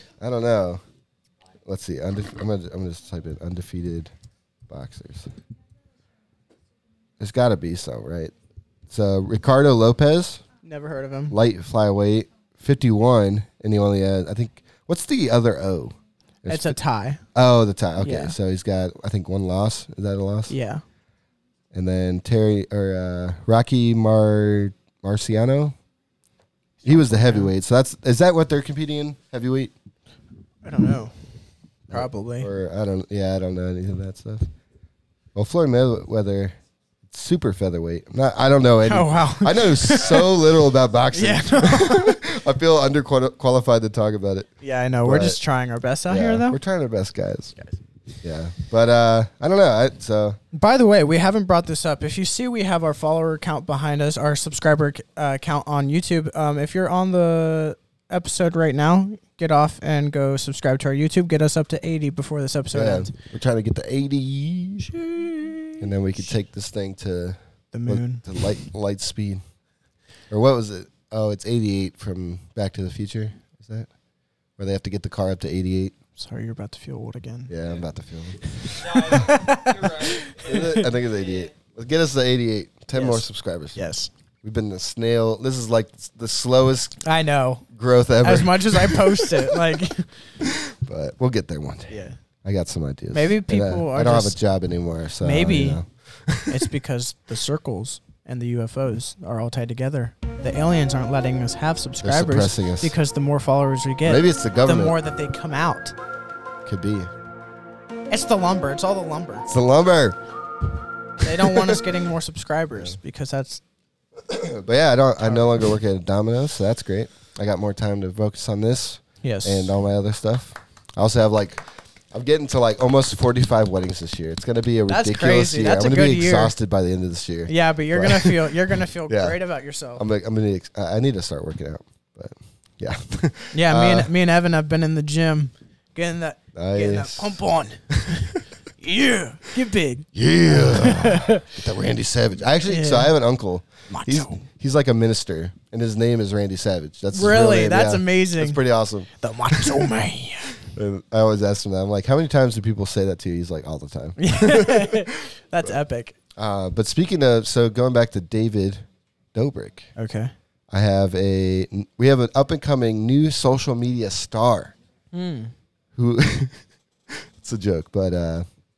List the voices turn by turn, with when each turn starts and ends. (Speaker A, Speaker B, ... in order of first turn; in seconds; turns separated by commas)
Speaker A: 0.2-0.8, Speaker A: 1.6-4.1, Speaker A: 4.7-5.3, Speaker A: 7.2-8.3, Speaker A: 8.9-10.4, Speaker B: 10.6-11.4, Speaker A: 11.3-16.8, Speaker B: 16.5-17.2, Speaker A: 17.3-20.5, Speaker B: 18.0-18.3, Speaker B: 20.5-20.8, Speaker A: 21.7-25.8, Speaker A: 26.8-29.7, Speaker B: 26.8-27.5, Speaker B: 30.6-31.1, Speaker A: 31.9-34.5, Speaker B: 31.9-32.5, Speaker A: 35.3-36.5, Speaker A: 37.1-44.5, Speaker B: 38.9-40.3, Speaker B: 41.1-42.2, Speaker B: 44.6-46.6, Speaker A: 45.0-45.4, Speaker A: 46.1-47.5, Speaker A: 48.2-50.4, Speaker B: 50.5-63.1, Speaker A: 62.7-64.9, Speaker B: 64.8-66.3, Speaker A: 65.8-69.4, Speaker B: 67.7-68.2, Speaker A: 70.3-73.9, Speaker A: 74.6-76.0, Speaker B: 76.2-77.5, Speaker A: 77.5-79.4, Speaker B: 78.5-80.9, Speaker A: 80.4-83.8, Speaker B: 82.9-84.1, Speaker A: 84.4-87.0, Speaker B: 87.0-87.6, Speaker A: 87.7-89.7, Speaker B: 88.2-90.1, Speaker A: 90.4-96.7, Speaker B: 91.9-92.2, Speaker B: 93.1-94.4, Speaker B: 95.2-95.8, Speaker B: 96.5-105.9, Speaker A: 102.0-102.9, Speaker A: 104.0-105.0, Speaker A: 106.6-107.1, Speaker B: 108.1-109.5, Speaker A: 109.5-110.2, Speaker B: 111.2-113.6, Speaker A: 111.4-111.8, Speaker A: 114.3-129.4, Speaker B: 115.2-115.5, Speaker B: 119.2-119.7, Speaker B: 124.9-126.5, Speaker B: 127.5-130.0, Speaker A: 129.9-134.1, Speaker B: 133.5-141.4, Speaker A: 136.5-137.4, Speaker A: 140.1-149.8, Speaker B: 142.7-143.1, Speaker B: 143.9-144.4, Speaker B: 147.1-148.6, Speaker B: 149.2-150.5, Speaker A: 150.6-155.1, Speaker B: 154.2-156.1, Speaker A: 156.3-159.9, Speaker B: 159.9-160.3, Speaker A: 160.7-164.7, Speaker B: 165.1-165.5, Speaker A: 165.9-168.4